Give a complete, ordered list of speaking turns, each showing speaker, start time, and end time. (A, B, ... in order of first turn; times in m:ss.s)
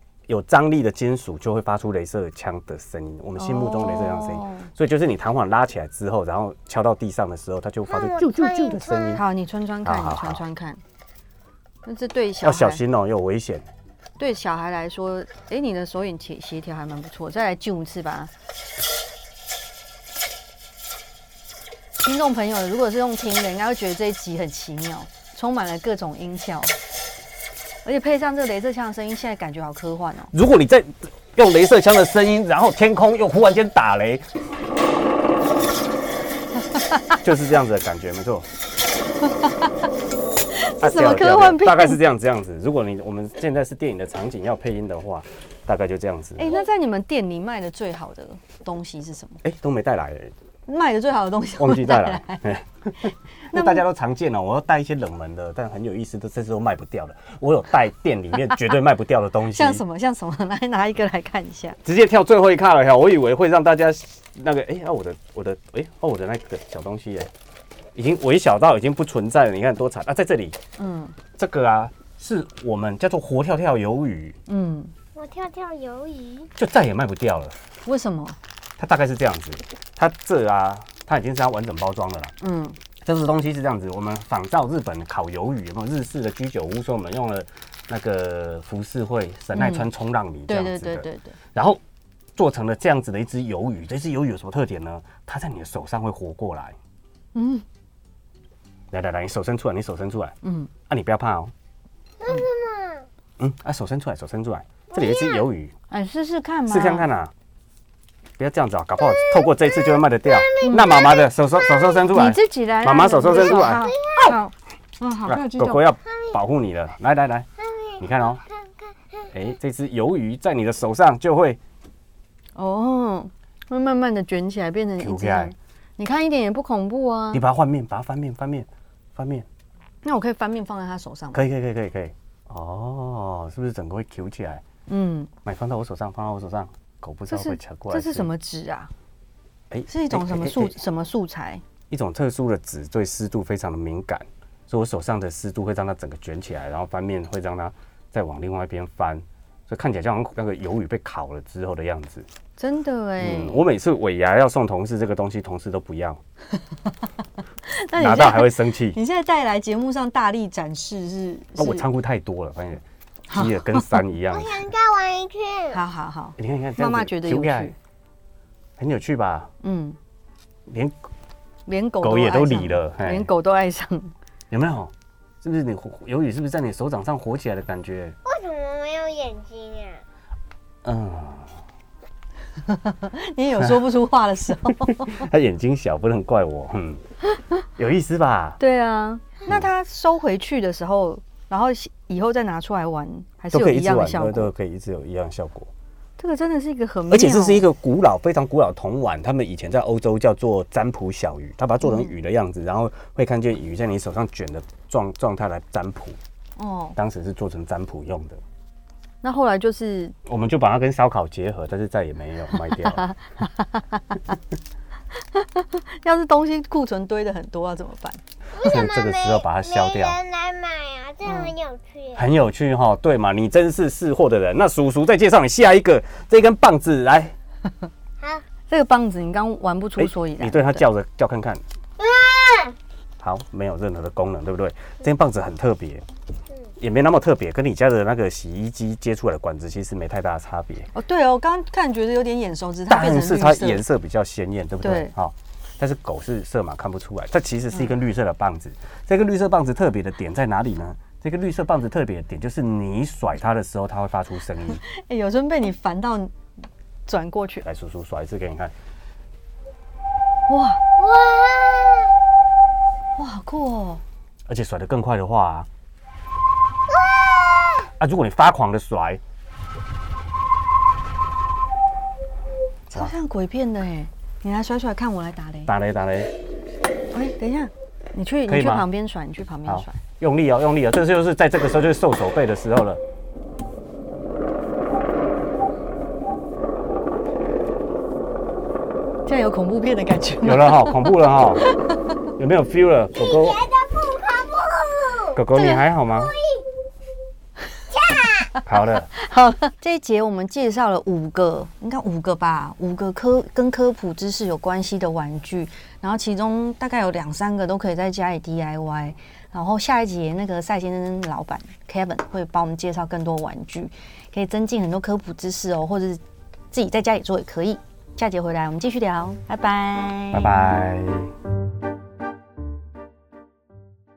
0:00.3-0:09.2 A
0:03.4-0:04.7 B
0:07.9-0:09.2 C
0:09.1-0:10.8 B
0:09.8-0:10.4 A
0:11.8-0:12.8 B
0:12.4-0:13.6 A
0:14.2-0:18.3 B
0:22.0-0:26.8 B
0:27.8-0:30.3 B
0:30.3-0:34.3 A
0:37.2-0:38.5 A
0:39.3-0:39.7 B
0:40.5-0:42.0 B
0:40.8-0:46.6 A
0:46.4-0:49.4 B
0:49.4-0:50.3 A
0:50.7-0:53.8 B
0:51.6-0:59.8 A
0:59.5-1:01.8 B
1:01.8-1:07.3 A
1:07.9-1:10.6 A
1:10.8-1:11.2 B
1:11.4-1:14.4 A
1:14.5-1:14.9 B
1:15.1-1:16.5 C
1:16.6-1:17.6 A
1:17.8-1:18.4 B
1:18.8-1:22.3 A
1:22.4-1:22.8 B
1:23.0-1:31.8 A
1:29.5-1:29.9 B
1:30.5-1:31.4 B
1:32.3-1:36.8 A
1:37.3-1:37.6 B
1:38.9-1:40.4 A
1:40.4-1:40.7 B
1:40.9-1:41.5 A
1:42.2-1:43.1 C
1:43.4-1:45.7 A
1:44.9-1:45.4 C
1:45.9-1:47.1 B
1:46.7-1:47.3 A
1:48.4-1:53.9 A
1:49.0-1:52.0 C
1:50.6-1:50.9 B
1:52.1-1:55.8 B
1:53.4-1:54.3 C
1:55.2-1:57.5 A
1:57.6-1:59.3 C
1:58.0-1:58.4 A
1:59.3-2:01.6 A
2:02.6-2:07.4 B
2:05.0-2:05.5 A
2:07.3-2:09.5 A
2:10.0-2:11.4 B
2:11.3-2:14.6 A
2:14.9-2:15.3 B
2:15.4-2:18.3 A
2:17.3-2:18.9 B
2:19.7-2:20.7 A
2:19.9-2:21.6 B
2:21.9-2:32.3 A
2:32.6-2:33.6 B
2:33.2-2:36.2 A
2:37.6-2:41.9 B
2:38.0-2:39.0 A
2:41.6-2:44.6 A
2:43.3-2:44.0 B
2:44.3-2:45.8 C
2:45.7-2:47.7 B
2:46.4-2:47.7 A
2:48.8-2:49.5 A
2:49.6-2:50.0 B
2:50.7-2:50.9 A
2:51.6-2:54.1 B
2:52.0-2:53.3 A
2:54.5-2:58.2 A
2:58.2-3:00.0 C
3:00.8-3:01.6 A
3:02.6-3:05.3 B
3:04.7-3:07.0 A
3:07.8-3:08.6 A
3:08.6-3:14.5 B
3:13.5-3:15.7 A
3:16.2-3:17.6 B
3:17.1-3:26.2 A
3:21.8-3:22.1 B
3:26.6-3:27.0 B
3:27.0-3:28.4 A
3:29.2-3:30.1 B
3:30.2-3:33.1 A
3:32.8-3:34.2 B
3:35.3-3:38.2 B
3:38.5-3:42.3 C
3:38.6-3:40.2 A
3:41.2-3:41.5 B
3:42.1-3:47.3 A
3:48.7-3:50.9 B
3:50.0-3:51.6 A
3:52.0-3:52.7 C
3:53.2-3:56.0 A
3:56.8-4:00.9 A
4:00.9-4:03.8 B
4:02.9-4:14.8 A
4:04.8-4:05.1 B
4:14.7-4:16.3 B
4:17.1-4:17.6 B
4:17.6-4:18.7 A
4:20.5-4:20.8 B
4:21.0-4:22.1 C
4:23.2-4:24.0 B
4:24.5-4:25.7 A
4:26.9-4:27.9 C
4:28.0-4:29.2 A
4:32.9-4:35.7 B
4:35.6-4:36.3 A
4:37.1-4:40.0 B
4:38.5-4:38.8 A
4:39.6-4:43.0 A
4:49.2-4:52.0 B
4:50.4-4:51.6 A
4:52.4-4:53.6 A
4:53.2-4:55.4 C
4:55.3-4:56.3 A
4:55.5-4:55.8 B
4:56.1-4:56.6 C
4:57.9-4:58.5 C
4:58.6-4:59.1 A
4:59.1-5:20.7 B
5:20.3-5:21.3 A